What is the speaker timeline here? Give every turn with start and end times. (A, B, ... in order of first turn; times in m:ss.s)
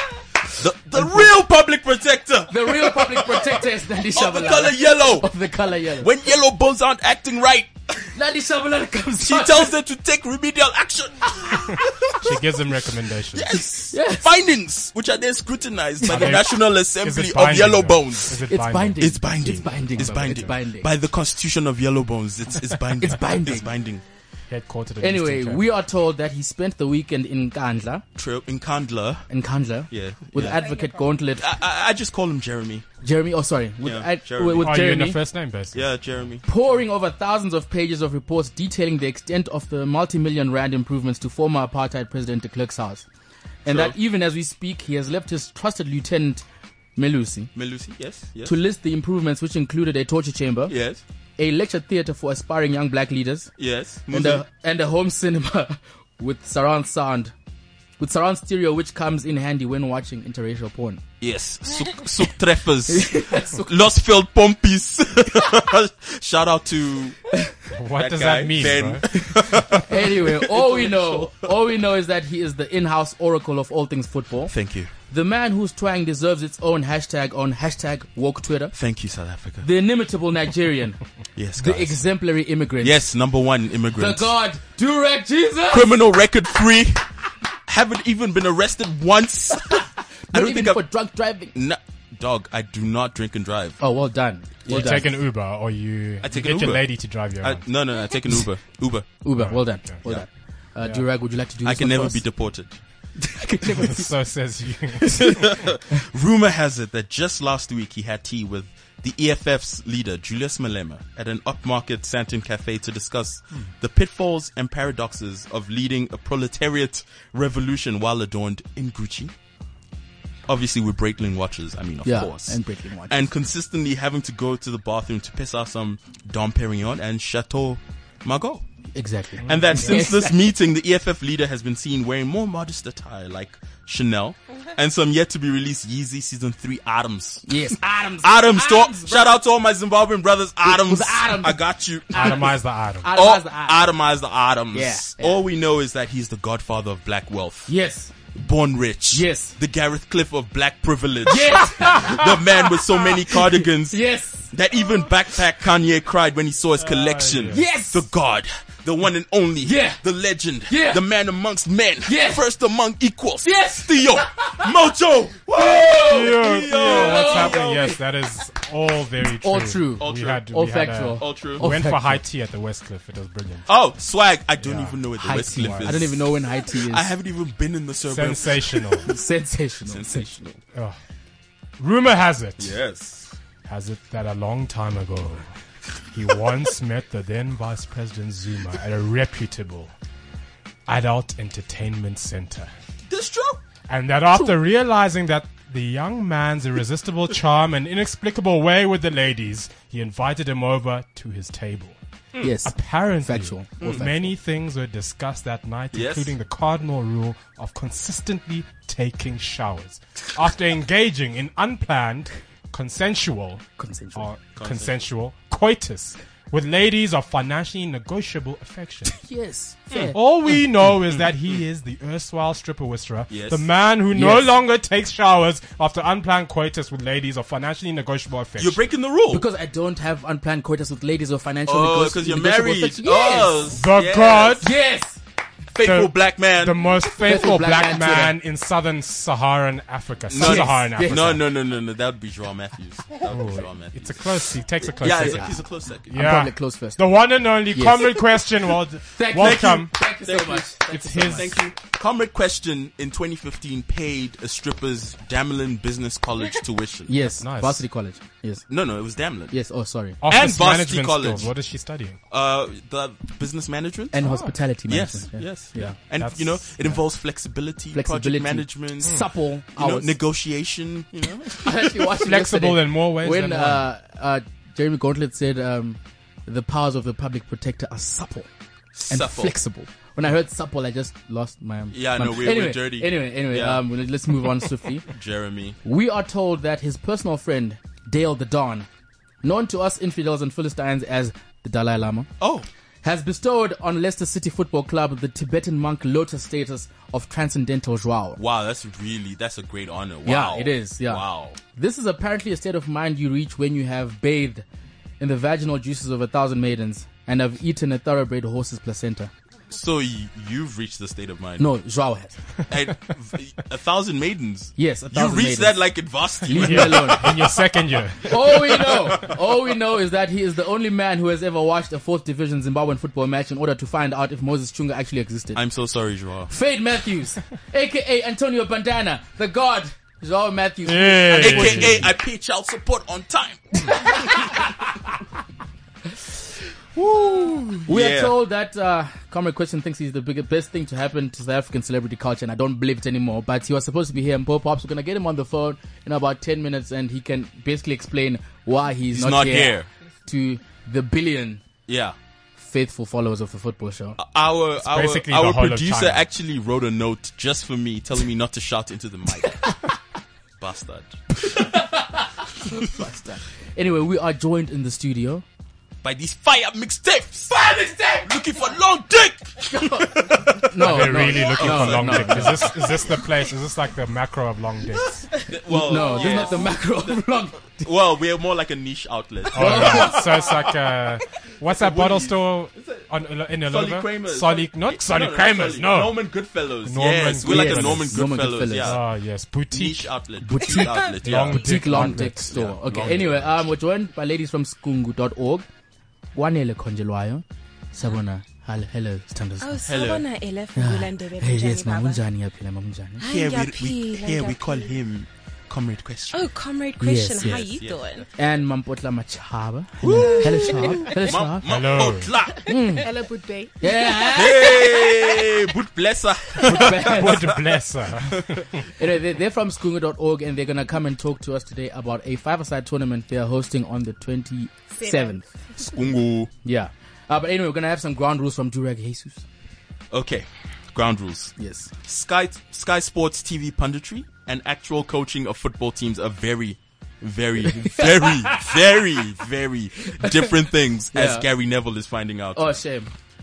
0:00.6-0:03.6 A
0:00.9-0:01.4 B
0:02.5-0:06.1 B
0:04.1-0:05.3 A
0:06.0-0:08.1 A
0:08.1-0:09.7 B
0:09.2-0:12.4 A
0:12.2-0:13.6 C
0:13.3-0:18.4 A
0:13.9-0:14.3 B
0:16.1-0:19.0 C
0:18.5-0:20.9 B
0:19.0-0:24.0 A
0:20.0-0:20.5 C
0:23.0-0:23.7 B
0:24.5-0:25.6 C
0:25.0-0:28.0 B
0:28.2-0:29.3 A
0:29.3-0:31.5 B
0:29.9-0:30.6 A
0:30.5-0:31.1 D
0:31.4-0:32.9 A
0:33.0-0:35.2 B
0:33.8-0:34.8 A
0:34.6-0:35.8 C
0:35.7-0:36.4 A
0:36.5-0:43.1 B
0:43.6-0:46.4 B
0:43.7-0:44.0 A
0:47.0-0:47.5 B
0:47.6-0:48.6 A
0:48.4-0:50.8 B
0:50.7-0:51.0 A
0:51.4-0:53.5 B
0:53.6-0:54.4 A
0:54.1-0:57.3 B
0:58.0-1:01.0 B
1:01.2-1:07.2 A
1:02.9-1:03.7 B
1:07.8-1:09.1 C
1:08.0-1:11.5 A
1:09.1-1:14.5 B
1:14.5-1:14.9 A
1:15.1-1:18.8 B
1:18.7-1:19.7 A
1:19.6-1:21.0 B
1:21.4-1:22.0 A
1:21.6-1:23.0 B
1:22.8-1:24.3 A
1:24.0-1:26.0 B
1:25.7-1:27.0 A
1:27.7-1:30.9 A
1:29.7-1:31.5 B
1:31.5-1:33.8 A
1:33.8-1:35.1 B
1:34.6-1:35.1 A
1:34.7-1:37.7 C
1:36.2-1:39.2 A
1:39.2-1:42.2 B
1:39.4-1:40.0 C
1:41.6-1:42.8 A
1:43.2-1:44.1 B
1:43.7-1:45.4 C
1:45.2-1:59.3 A
2:00.5-2:08.6 A
2:02.0-2:03.2 B
2:09.0-2:10.3 B
2:09.5-2:22.6 A
2:09.5-2:10.0 C
2:17.5-2:19.4 B
2:20.6-2:22.5 B
2:22.2-2:23.1 C
2:23.0-2:23.9 B
2:23.1-2:27.7 A
2:24.7-2:25.4 B
2:27.7-2:28.1 B
2:28.3-2:34.0 A
2:29.1-2:29.6 B
2:31.3-2:34.5 B
2:34.5-2:48.0 A
2:36.8-2:37.7 C
2:37.5-2:38.1 B
2:39.6-2:40.0 B
2:40.7-2:41.0 B
2:42.1-2:42.5 B
2:43.4-2:44.7 B
2:45.6-2:47.6 B
2:46.0-2:53.6 C
2:49.4-2:52.2 B
2:50.0-2:50.4 A
2:51.2-2:51.7 A
2:53.7-2:59.1 A
2:54.6-2:55.0 C
2:55.2-2:57.1 B
2:55.6-2:56.1 C
2:58.1-2:59.1 C
2:59.1-3:00.3 B
2:59.9-3:00.6 A
3:01.8-3:02.8 C
3:02.6-3:03.4 A
3:03.7-3:05.4 C
3:06.1-3:09.9 C
3:10.9-3:12.7 C
3:13.1-3:13.6 A
3:13.9-3:39.1 C
3:22.4-3:24.3 B
3:23.8-3:24.0 A
3:25.9-3:26.3 A
3:33.8-3:34.3 B
3:34.6-3:35.1 A
3:39.0-3:40.2 B
3:39.9-3:40.9 A
3:40.1-3:48.8 C
3:43.3-3:43.6 A
3:44.1-3:44.5 B
3:48.6-3:49.4 A
3:49.3-3:53.7 B
3:51.7-3:54.7 A
3:53.7-3:54.7 C
3:54.6-3:55.2 B
3:55.7-3:57.3 A
3:55.8-4:01.5 C
3:57.2-3:58.4 B
4:00.3-4:06.1 A
4:00.3-4:01.4 B
4:03.3-4:10.0 C
4:05.2-4:05.5 B
4:06.1-4:07.0 B
4:07.7-4:08.2 B
4:09.1-4:11.5 B
4:09.4-4:17.1 A
4:10.9-4:11.5 C
4:17.1-4:18.7 B
4:17.4-4:17.8 C
4:18.7-4:19.6 A
4:19.5-4:20.2 B
4:20.2-4:22.2 C
4:20.2-4:21.5 A
4:22.3-4:24.2 A
4:24.1-4:26.0 B
4:24.9-4:29.2 A
4:26.2-4:26.8 C
4:27.9-4:30.2 B
4:29.8-4:32.0 A
4:31.6-4:38.5 B
4:32.2-4:33.9 C
4:38.9-4:39.6 A
4:39.1-4:45.1 B
4:41.9-4:43.8 A
4:45.1-4:45.8 A
4:45.8-4:48.9 B
4:49.4-4:52.3 B
4:52.4-4:52.7 A
4:53.0-4:58.4 B
4:58.4-5:01.6 A
5:00.2-5:04.6 B
5:05.2-5:09.3 B
5:09.7-5:11.7 A
5:11.6-5:12.4 B
5:12.7-5:17.6 A
5:14.8-5:15.8 B
5:16.5-5:17.4 B
5:16.5-5:18.9 C
5:18.3-5:25.6 B
5:18.7-5:19.3 A
5:25.6-5:26.5 A
5:26.5-5:32.1 B
5:30.9-5:32.1 C
5:31.4-5:34.2 A
5:33.9-5:34.6 B
5:37.0-5:38.4 A
5:37.9-5:51.6 B
5:49.1-5:49.9 A
5:51.9-5:52.2 A
5:52.6-5:54.2 B
5:54.2-5:59.8 A
5:54.8-5:56.2 C
6:00.6-6:01.7 A
6:01.4-6:05.4 B
6:06.0-6:07.5 A
6:07.5-6:08.3 B
6:08.2-6:13.2 A
6:09.7-6:12.7 B
6:10.8-6:15.3 C
6:15.3-6:17.2 A
6:15.7-6:17.9 B
6:17.8-6:20.7 A
6:19.5-6:26.2 C
6:19.6-6:20.5 B
6:21.7-6:23.1 A
6:23.6-6:29.0 A
6:26.8-6:30.1 C
6:27.4-6:29.0 B
6:29.7-6:33.6 A
6:30.4-6:35.7 B
6:30.8-6:31.1 D
6:31.2-6:32.6 C
6:36.4-6:39.8 B
6:39.6-6:42.2 D
6:39.9-6:40.3 A
6:40.8-6:43.2 B
6:43.2-6:45.0 D
6:43.2-6:46.5 A
6:46.3-6:48.3 D
6:47.0-6:47.7 B
6:47.4-6:48.2 A
6:48.4-6:51.6 B
6:50.0-6:52.7 A
6:50.2-6:51.1 D
6:51.7-6:52.4 C
6:52.6-6:53.1 B
6:53.0-6:54.4 E
6:53.8-6:54.9 B
6:54.3-6:58.6 A
6:56.6-6:57.5 B
6:56.9-6:58.8 C
6:59.0-7:05.4 B
7:04.9-7:05.4 E
7:05.8-7:06.5 A
7:06.6-7:09.4 B
7:10.1-7:22.8 A
7:11.6-7:11.9 B
7:17.7-7:18.8 B
7:20.1-7:20.6 B
7:21.1-7:21.5 B
7:22.6-7:23.1 B